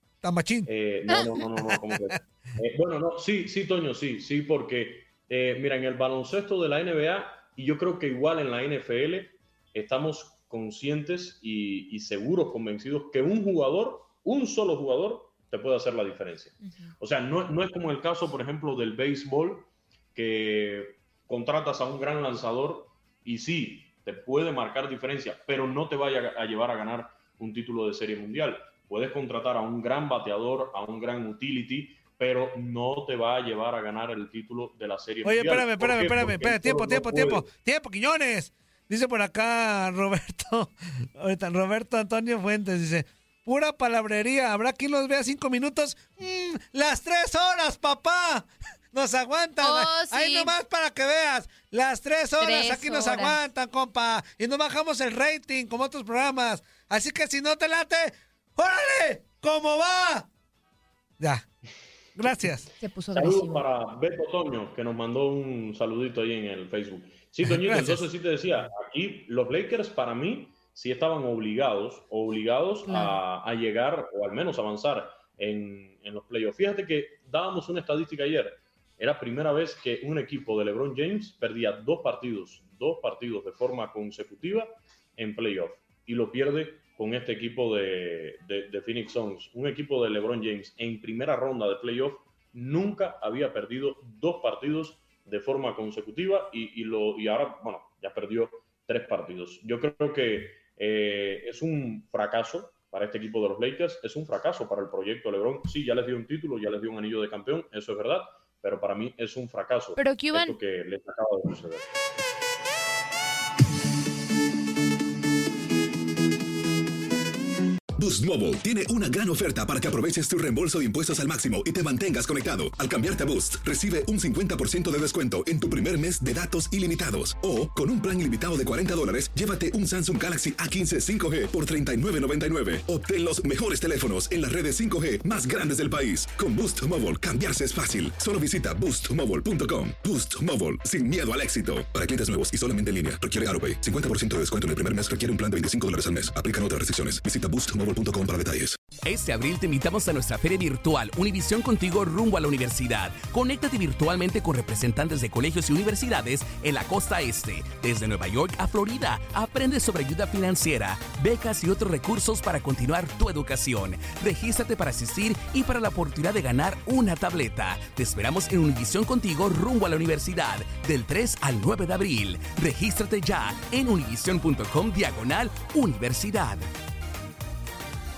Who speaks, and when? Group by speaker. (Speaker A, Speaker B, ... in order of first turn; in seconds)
Speaker A: 0.2-0.7, 1.5-2.1, 35.2-60.3, 61.2-61.5, 62.2-62.8, 67.4-68.1
Speaker B: 0.7-37.5, 63.1-111.9
Speaker C: 49.6-50.5, 52.4-53.4, 62.8-63.6, 72.8-73.2, 110.0-110.6
Speaker D: 118.0-148.8
Speaker E: 149.0-176.7